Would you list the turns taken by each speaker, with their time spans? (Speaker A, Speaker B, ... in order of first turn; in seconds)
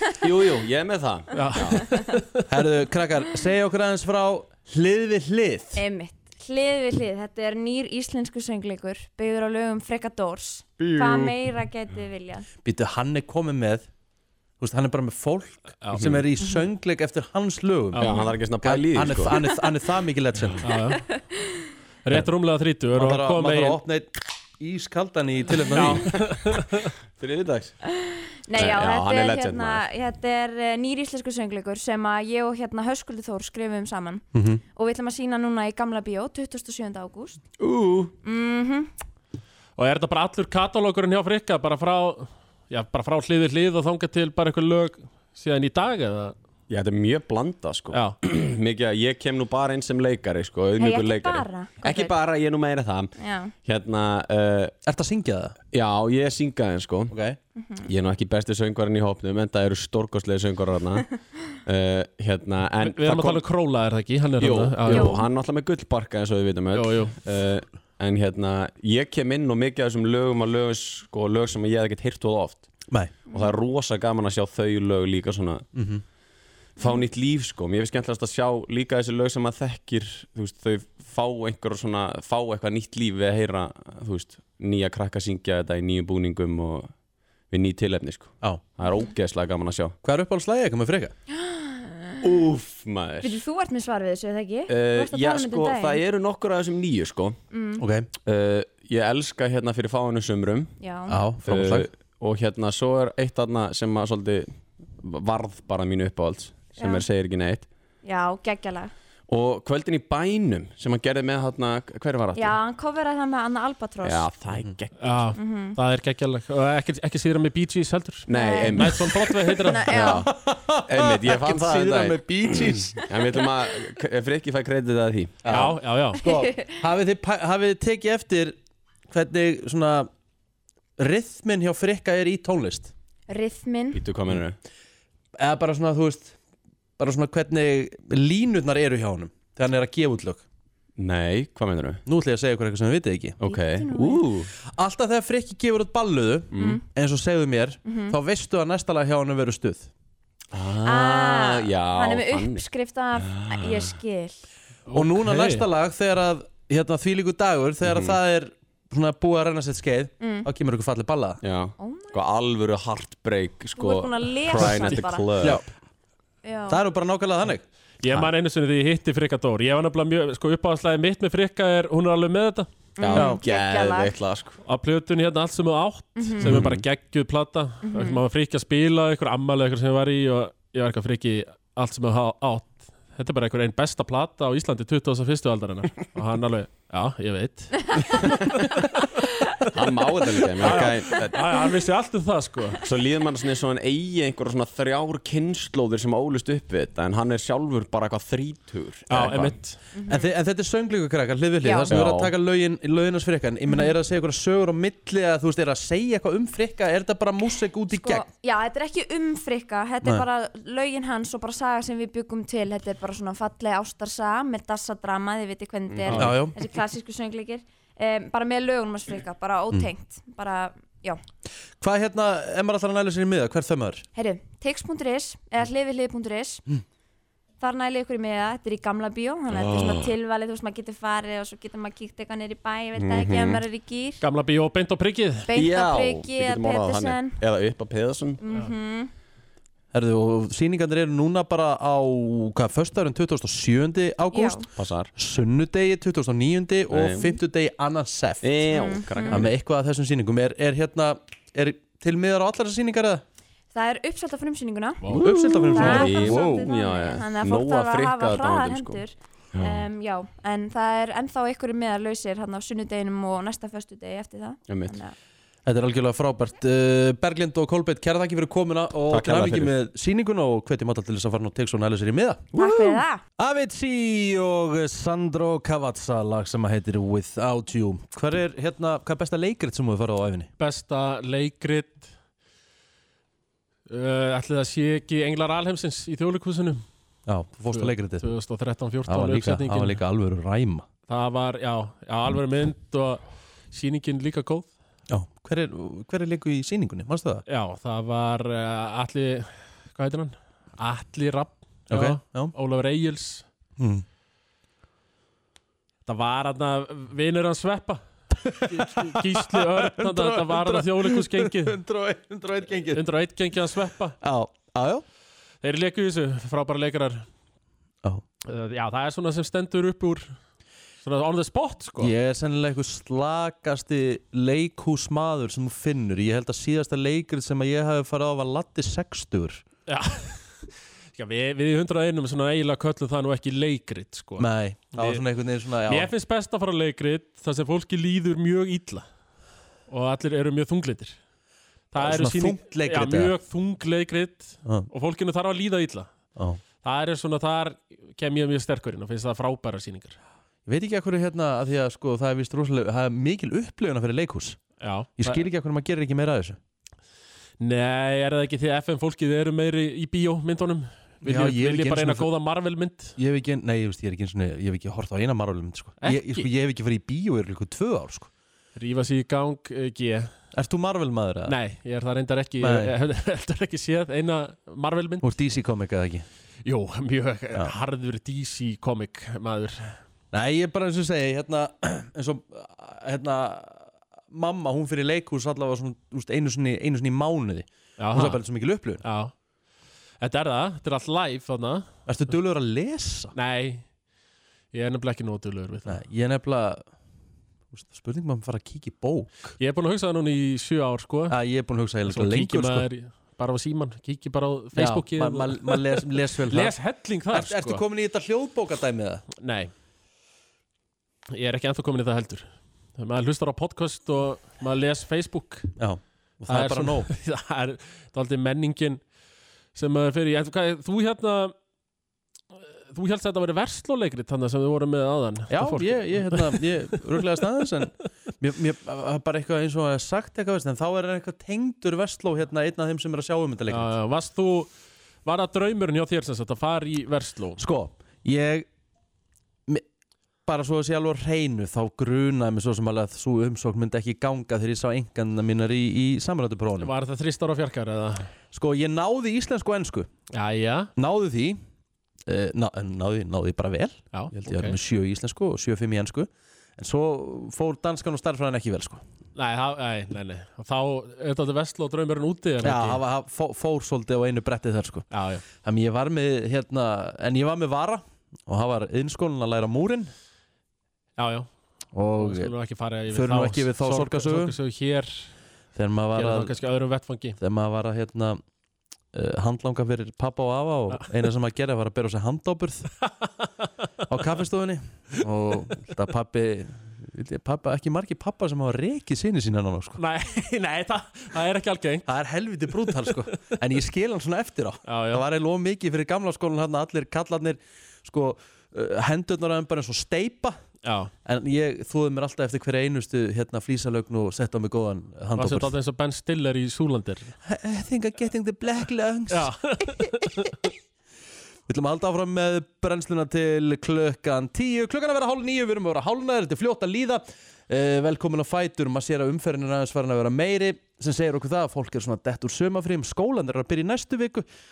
Speaker A: 0.2-2.1, 10.8-11.3, 18.0-19.5, 25.8-26.0, 27.2-27.8, 28.5-29.8, 37.6-38.1, 46.7-54.7, 55.7-57.1, 57.9-63.4, 64.4-72.7, 73.3-75.7, 76.8-86.9, 87.5-90.0, 92.2-93.4, 94.7-97.4, 98.2-100.7, 101.5-107.7, 109.3-112.6, 114.0-115.3, 118.3-120.3, 120.8-125.7, 133.9-134.6, 141.0-142.0, 143.4-144.5, 146.5-146.8, 150.5-152.6, 153.2-153.9, 157.8-158.2, 161.4-165.6, 173.0-174.6, 176.4-176.8, 189.7-191.4, 192.8-199.6, 201.9-202.3, 216.0-216.3, 229.5-230.1, 232.9-233.6, 235.5-238.4, 244.8-245.1, 246.9-247.3, 248.4-249.5, 255.1-259.0, 259.5-259.9, 264.7-265.0, 269.1-269.7, 272.6-272.8
Speaker B: 1.3-2.4, 15.8-16.2, 17.9-18.2, 20.6-21.0, 22.0-23.8, 25.7-26.9, 39.8-46.4, 47.9-48.2, 62.8-65.2, 66.7-67.1, 115.0-120.0, 125.5-126.2, 154.9-155.7, 164.6-164.9, 168.0-172.7, 174.6-189.1, 190.6-192.8, 199.1-199.8, 216.1-216.5, 234.2-235.5, 238.5-238.7, 255.0-255.4, 280.6-282.1, 283.9-286.8, 287.7-290.0, 291.1-294.7, 297.5-303.4, 306.1-308.0, 308.6-311.8, 312.9-314.2, 315.6-317.3, 318.4-320.3, 321.0-322.1, 329.9-335.2, 335.9-339.1, 339.9-341.2, 341.9-346.1, 346.8-350.2, 354.8-355.4, 357.6-363.1, 366.0-366.5, 368.7-370.3, 371.5-375.4, 376.6-380.0, 388.0-388.4, 389.0-389.3, 390.2-391.9, 393.3-393.9, 394.7-396.0, 399.6-401.4, 402.1-407.8, 409.4-409.7, 411.3-415.8, 416.5-419.0, 419.7-421.5, 422.6-427.4, 433.7-434.7, 435.2-437.6, 446.8-448.3, 450.3-450.9, 454.1-454.8, 459.3-463.0, 465.1-465.4, 471.2-471.5, 472.1-475.3, 476.1-477.4, 483.0-483.7, 490.0-492.1, 492.8-493.2, 494.9-495.2, 500.8-501.1, 505.4-507.3, 509.3-510.5
Speaker C: 2.5-5.8, 12.6-13.9, 14.6-18.0, 18.6-20.6, 22.9-26.1, 34.3-34.6, 54.9-55.5, 57.1-57.4, 75.7-76.0, 90.0-91.1, 97.8-98.1, 101.1-101.9, 120.2-123.0, 125.4-128.6, 129.1-130.1, 131.0-132.9, 135.4-136.4, 137.0-140.4, 142.1-143.4, 144.8-149.9, 154.9-161.4, 165.4-165.7, 166.7-167.6, 200.1-208.2, 216.2-216.6, 221.8-224.1, 239.9-244.6, 245.2-248.5, 249.3-253.2, 255.2-256.7, 265.6-272.6, 273.4-280.5, 287.3-288.2, 289.1-290.9, 295.1-297.4, 301.9-302.5, 303.8-304.0, 308.4-313.0, 314.2-315.0, 322.0-329.6, 334.4-336.1, 342.0-343.3, 346.4-346.6, 350.6-354.6, 355.2-356.6, 361.2-362.3, 363.2-368.3, 370.5-371.5, 372.6-372.9, 375.2-376.2, 380.3-389.0, 392.1-393.3, 395.9-396.9, 397.7-399.5, 401.3-402.9, 404.8-406.7, 407.3-409.2, 415.8-417.1, 425.5-433.9, 437.6-438.7, 440.4-446.9, 448.5-450.1, 450.9-451.6, 452.3-459.0, 462.6-465.1, 465.6-470.1, 471.9-472.5, 473.1-474.5, 475.7-476.5, 477.4-478.4, 479.1-482.9, 484.1-490.0, 492.1-500.6, 501.2-505.7, 507.4-509.5, 511.7-524.5
Speaker D: 5.8-12.4, 28.0-37.4, 38.2-38.9, 50.8-52.1, 53.2-53.5, 57.6-57.9, 64.9-65.2, 73.3-73.5, 76.8-77.0, 91.4-92.2, 93.2-96.0, 97.5-97.8, 100.8-101.2, 106.8-107.0, 108.0-108.9, 112.3-114.3, 115.3-115.8, 118.3-119.0, 119.6-120.3, 133.3-134.0, 143.4-144.2, 146.6-146.8, 147.8-148.2, 150.8-154.4, 160.2-160.5, 161.8-162.2, 163.8-165.5, 166.4-166.8, 173.0-174.1, 176.2-176.6, 177.8-178.2, 199.9-200.3, 201.6-201.9, 207.9-221.2, 224.2-226.6, 227.6-234.2, 235.5-237.4, 238.4-239.1, 244.3-244.7, 248.7-249.4, 253.7-255.0, 255.7-265.1, 272.6-273.2